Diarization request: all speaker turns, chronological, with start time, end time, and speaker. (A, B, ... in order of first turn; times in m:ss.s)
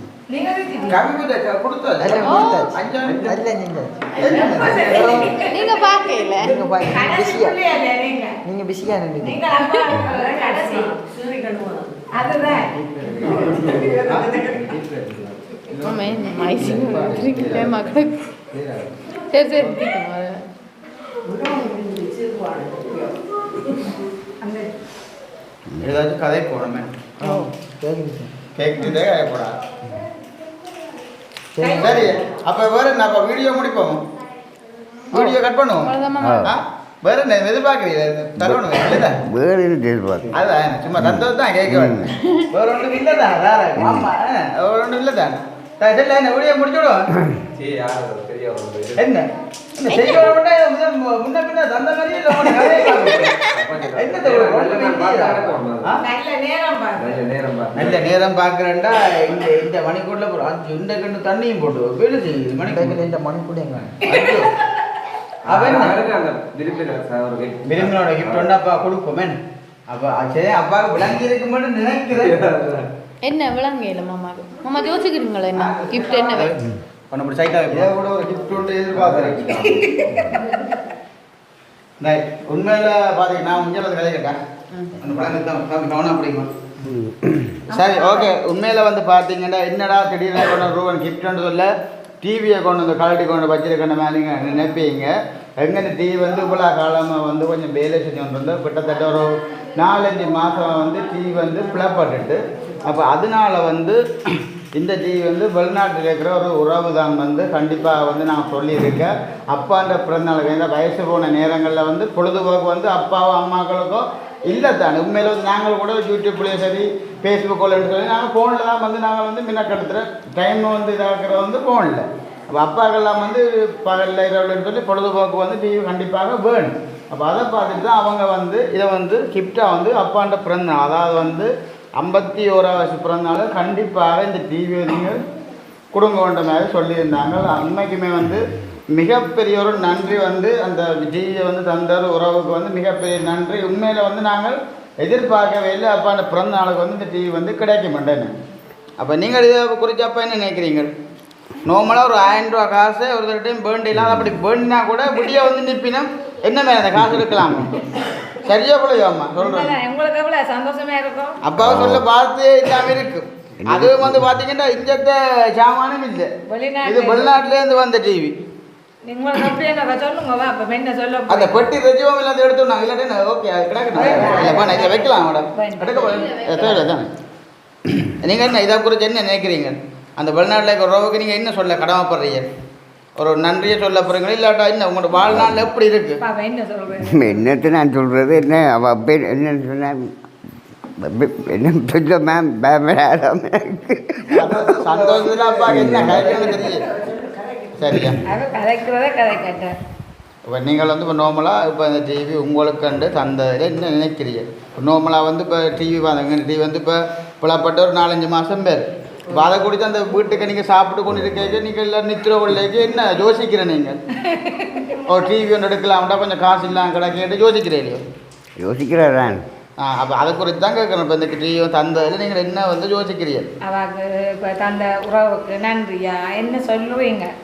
0:00.3-0:01.0 A
0:00.9-0:03.4 B
0:02.0-0:04.0 C
0:02.2-0:02.7 D
0:03.0-0:03.4 E
0:04.1-0:06.5 D
0:04.2-0:05.1 B
0:04.2-0:05.8 A
0:04.9-0:05.3 C
0:06.4-0:07.5 C
0:06.8-0:08.4 A
0:08.4-0:09.4 C
0:09.2-0:11.0 A
0:10.1-0:11.8 D
0:12.1-0:12.7 A
0:13.0-0:15.1 E
0:13.3-0:14.6 A
0:14.1-0:17.9 F
0:15.8-0:18.2 D
0:19.3-0:20.4 D
0:21.5-0:22.9 D
0:24.4-0:24.7 A
0:25.8-0:26.9 B
0:27.2-0:27.5 D
0:27.2-0:28.3 C
0:28.6-0:29.5 B
0:31.6-0:32.0 A
0:31.7-0:34.0 B
0:35.1-0:35.9 B
0:35.1-0:36.5 D
0:36.2-0:36.5 G
0:36.4-0:39.2 B
0:38.4-0:40.3 G
0:40.3-0:47.1 B
0:41.0-0:42.1 G
0:43.8-0:44.1 G
0:47.6-0:49.1 E
0:49.0-0:53.4 B
0:49.9-0:50.3 D
0:53.5-0:55.9 E
0:53.9-0:56.0 B
0:56.0-0:57.1 A
0:57.0-0:58.1 E
0:57.7-1:03.0 B
1:02.7-1:04.0 C
1:04.0-1:04.5 B
1:05.4-1:06.0 B
1:05.4-1:08.5 E
1:07.6-1:09.4 B
1:09.9-1:12.3 B
1:12.1-1:12.9 E
1:13.2-1:16.5 D
1:15.6-1:17.9 B
1:17.7-1:19.7 F
1:19.0-1:19.3 E
1:19.2-1:19.7 B
1:19.6-1:20.4 A
1:22.0-1:24.4 B
1:25.0-1:26.5 B
1:26.9-1:27.6 G
1:27.7-1:28.3 A
1:27.7-1:31.7 B
1:32.2-1:44.0 B
1:44.7-2:15.2 B
2:15.9-2:28.3 B
2:29.0-2:30.9 B
2:31.6-2:37.8 B
2:34.0-2:34.3 G
2:38.4-2:39.8 B
2:39.3-2:41.4 A
2:41.4-2:46.3 B
2:41.6-2:42.0 G
2:43.6-2:44.3 G
2:46.5-2:47.4 A
2:46.8-2:48.4 B
2:49.0-2:51.6 A
2:51.3-2:57.1 B
2:53.9-2:56.2 A
2:55.9-2:56.9 D
2:58.0-3:02.5 B
3:03.2-3:06.2 B
3:05.2-3:05.6 G
3:06.2-3:07.4 A
3:07.0-3:10.1 G
3:11.0-3:15.1 G
3:14.4-3:16.6 F
3:14.7-3:16.8 B
3:15.7-3:16.3 G
3:16.3-3:19.8 A
3:17.8-3:18.2 B
3:20.5-3:34.0 B
3:34.3-3:34.9 A
3:35.0-3:38.0 B
3:38.6-3:39.4 G
3:39.8-3:43.5 B
3:43.6-3:47.3 A